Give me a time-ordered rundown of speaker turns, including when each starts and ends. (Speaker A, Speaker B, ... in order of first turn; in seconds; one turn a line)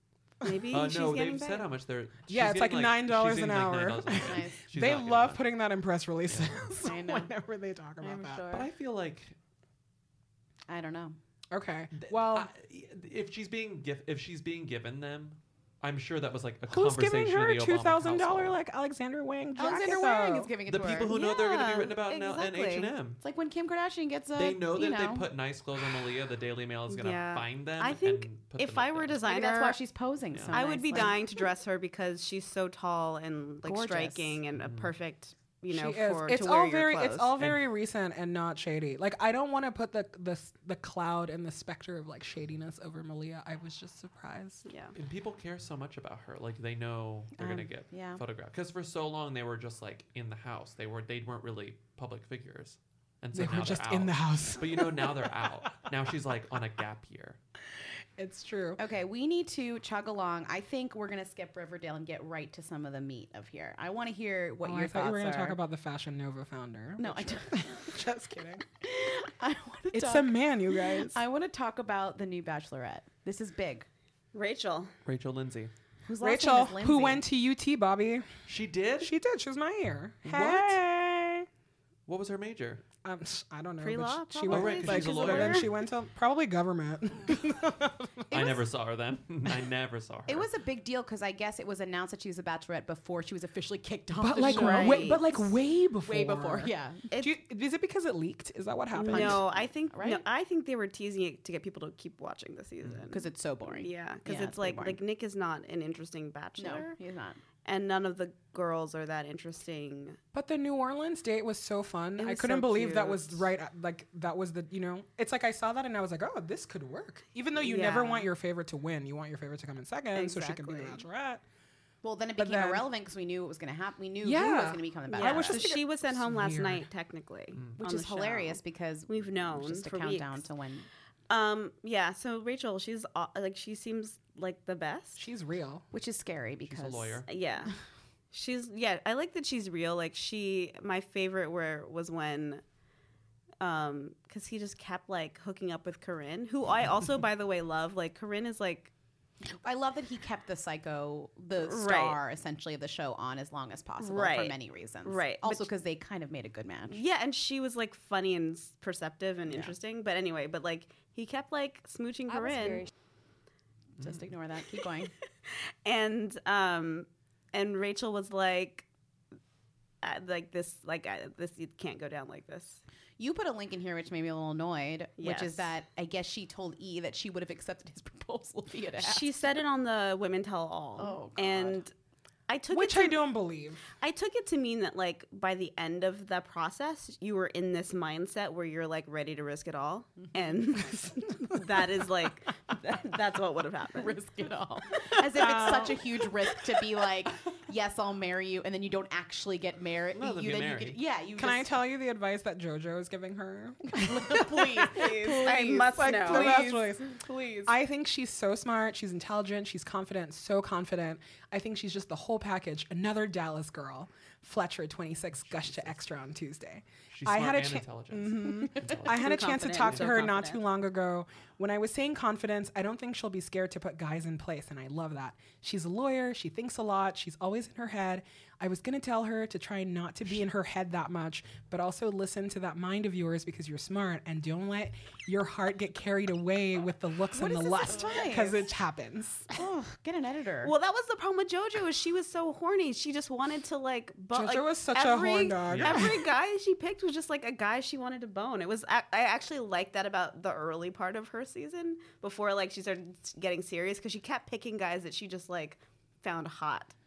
Speaker A: 0.4-1.7
Speaker B: 0.7-5.4
Speaker C: 2.3-8.5
Speaker D: 4.2-4.6
Speaker B: 6.3-6.7
Speaker D: 6.8-7.3
Speaker D: 8.0-8.7
Speaker B: 8.5-9.3
Speaker D: 10.7-11.2
Speaker C: 11.5-12.5
Speaker B: 11.9-18.6
Speaker C: 16.7-20.5
Speaker D: 19.6-21.1
Speaker B: 20.6-23.2
Speaker A: 21.1-22.9
Speaker D: 23.2-25.2
Speaker B: 24.3-29.2
Speaker A: 26.9-29.8
Speaker D: 29.2-31.4
Speaker A: 30.5-37.3
Speaker D: 33.6-34.4
Speaker B: 34.6-34.9
Speaker C: 35.7-44.6
Speaker A: 44.6-44.9
Speaker B: 44.9-57.4
Speaker D: 47.4-48.2
Speaker C: 53.3-55.5
Speaker C: 58.2-58.8
Speaker D: 58.8-65.6
Speaker C: 64.6-68.6
Speaker D: 67.0-67.8
Speaker D: 68.8-73.9
Speaker C: 69.9-71.2
Speaker A: 74.3-74.9
Speaker B: 75.0-75.7
Speaker D: 76.0-77.2
Speaker C: 76.2-78.3
Speaker B: 78.5-79.1
Speaker C: 79.0-81.5
Speaker B: 80.2-80.8
Speaker B: 82.1-82.8
Speaker C: 83.0-88.4
Speaker A: 83.8-85.7
Speaker B: 84.5-85.7
Speaker D: 88.3-88.6
Speaker B: 88.3-90.5
Speaker D: 90.3-95.5
Speaker C: 94.2-99.4
Speaker A: 94.4-95.3
Speaker D: 96.0-97.0
Speaker A: 97.1-97.3
Speaker A: 98.9-107.0
Speaker D: 99.1-100.2
Speaker D: 103.1-105.0
Speaker D: 106.6-107.4
Speaker A: 107.6-110.2
Speaker C: 110.3-121.4
Speaker A: 112.2-113.5
Speaker A: 117.6-118.3
Speaker A: 120.1-121.0
Speaker D: 122.0-125.7
Speaker C: 122.4-122.8
Speaker C: 124.2-126.9
Speaker A: 125.1-130.4
Speaker B: 127.5-127.8
Speaker D: 127.8-130.9
Speaker A: 131.3-135.2
Speaker C: 135.2-135.8
Speaker D: 135.9-137.2
Speaker B: 136.7-137.3
Speaker A: 137.3-137.7
Speaker A: 138.3-142.6
Speaker A: 143.6-148.9
Speaker D: 149.4-157.0
Speaker A: 151.6-152.2
Speaker A: 154.0-155.7
Speaker A: 156.9-162.9
Speaker D: 159.5-159.7
Speaker B: 164.0-164.3
Speaker D: 164.0-165.1
Speaker A: 165.8-168.8
Speaker A: 170.0-172.8
Speaker D: 173.2-179.5
Speaker A: 175.2-175.7
Speaker A: 179.0-181.9
Speaker D: 181.0-181.8
Speaker A: 182.5-183.2
Speaker C: 182.7-183.8
Speaker A: 184.0-194.2
Speaker C: 190.9-191.6
Speaker D: 193.9-201.7
Speaker C: 195.3-196.1
Speaker B: 200.1-201.0
Speaker C: 201.4-239.5
Speaker D: 203.9-207.7
Speaker A: 204.9-206.7
Speaker B: 215.3-216.0
Speaker B: 217.1-220.3
Speaker A: 219.1-220.6
Speaker D: 237.3-238.6
Speaker D: 239.5-240.7
Speaker A: 240.6-256.9
Speaker C: 244.3-246.3
Speaker B: 245.7-246.0